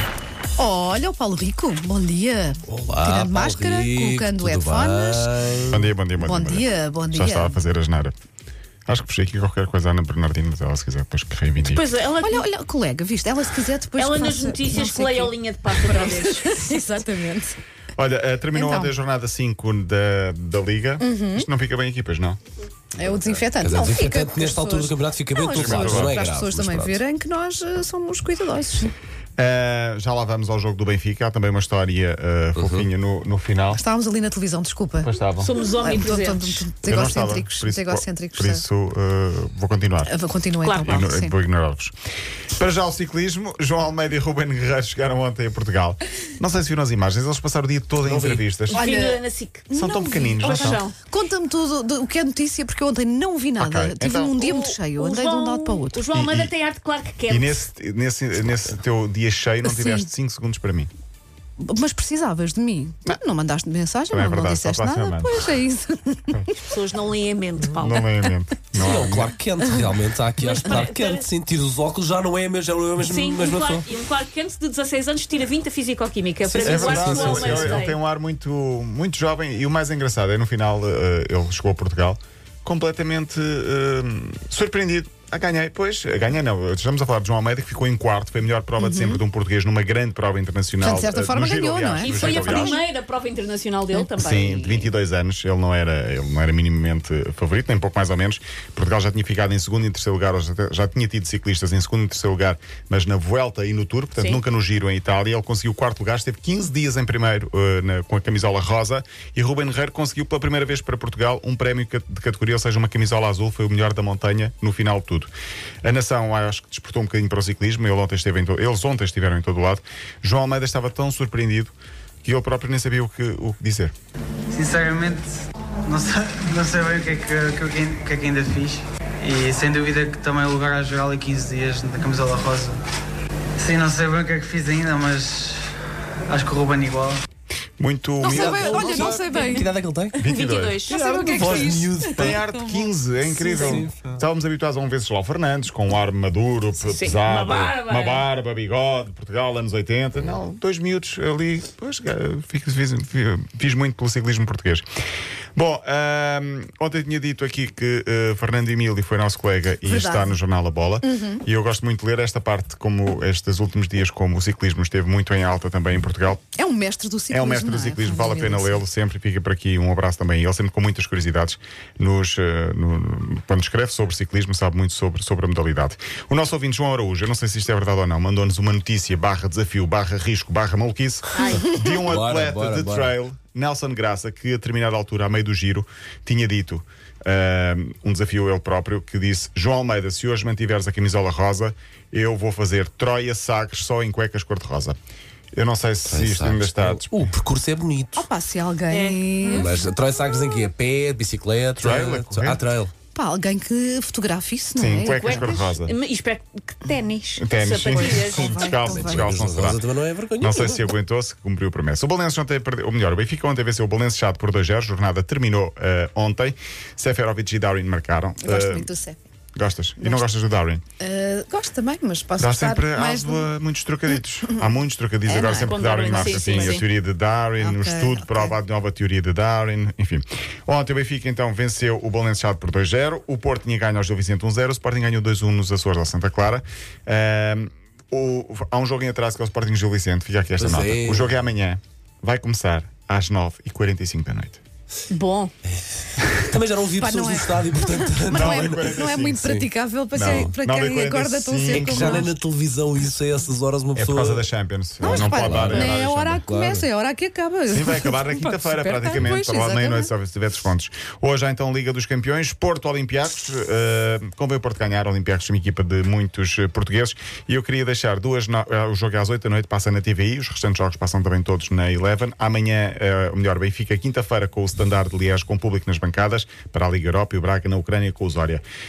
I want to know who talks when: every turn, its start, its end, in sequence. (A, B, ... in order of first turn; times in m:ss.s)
0:00.6-0:05.4 A
0:02.7-0:05.8 B
0:05.7-0:08.2 C
0:06.2-0:07.6 A
0:08.9-0:11.9 C
0:11.6-0:12.5 D
0:12.2-0:17.6 A
0:14.0-0:16.7 D
0:18.0-0:22.4 C
0:18.5-0:18.9 A
0:21.0-0:21.5 A
0:23.0-0:28.9 A
0:23.1-0:27.0 B
0:25.5-0:26.2 C
0:29.4-0:33.8 C
0:32.6-0:32.9 B
0:33.7-0:35.2 A
0:35.0-0:35.5 C
0:35.4-0:36.7 D
0:35.8-0:38.6 A
0:36.8-0:40.2 C
0:40.0-0:41.3 A
0:40.6-0:41.0 D
0:40.8-0:41.9 C
0:42.5-0:48.9 C
0:48.0-0:48.4 B
0:48.7-0:56.0 A
0:48.7-0:49.7 D
0:49.7-0:50.8 C
0:50.4-0:51.0 D
0:53.6-0:54.5 C
0:54.4-0:57.6 D
0:56.1-0:56.5 C
0:57.3-1:00.9 C
0:59.6-1:00.1 A
1:01.6-1:06.7 A
1:04.1-1:05.6 C
1:06.7-1:08.0 D
1:07.7-1:09.4 C
1:08.7-1:13.9 B
1:10.4-1:11.3 D
1:13.0-1:18.0 D
1:16.4-1:17.9 B
1:16.6-1:32.8 C
1:28.8-1:29.2 A
1:30.8-1:32.8 A
1:32.0-1:34.9 D
1:34.2-1:55.3 C
1:44.2-1:44.4 D
1:55.8-2:03.9 C
2:04.5-2:05.3 E
2:05.8-2:12.8 E
2:13.6-2:15.7 E
2:16.3-2:17.2 E
2:17.8-2:19.2 C
2:18.2-2:19.7 A
2:18.3-2:20.2 B
2:20.2-2:20.8 C
2:20.2-2:21.8 D
2:20.9-2:23.8 A
2:20.9-2:22.4 B
2:21.4-2:34.8 C
2:23.6-2:24.2 B
2:26.8-2:28.3 D
2:35.6-2:46.4 C
2:39.8-2:40.4 A
2:41.0-2:41.4 A
2:46.5-2:48.8 A
2:47.3-3:15.0 C
3:01.3-3:01.7 D
3:01.5-3:03.2 B
3:15.5-3:17.3 C
3:16.0-3:18.3 B
3:18.2-3:19.7 A
3:18.9-3:19.7 D
3:19.5-3:22.9 B
3:21.8-3:22.6 C
3:23.2-3:25.7 A
3:24.8-3:26.0 C
3:25.1-3:28.8 D
3:27.4-3:29.8 C
3:27.9-3:29.2 A
3:28.9-3:31.0 B
3:30.4-3:38.9 C
3:38.4-3:39.2 A
3:39.6-3:40.8 C
3:40.0-3:40.3 A
3:41.0-3:43.5 A
3:42.4-4:04.6 C
3:44.1-3:44.7 A
3:45.3-3:46.8 A
3:45.5-3:46.8 D
3:47.6-3:48.6 A
4:00.6-4:01.3 B
4:05.1-4:05.5 D
4:05.7-4:10.5 B
4:07.0-4:12.3 A
4:08.3-4:09.5 C
4:10.1-4:12.3 C
4:11.7-4:14.4 B
4:14.0-4:16.3 C
4:15.0-4:20.1 A
4:15.0-4:16.9 B
4:17.7-4:38.6 C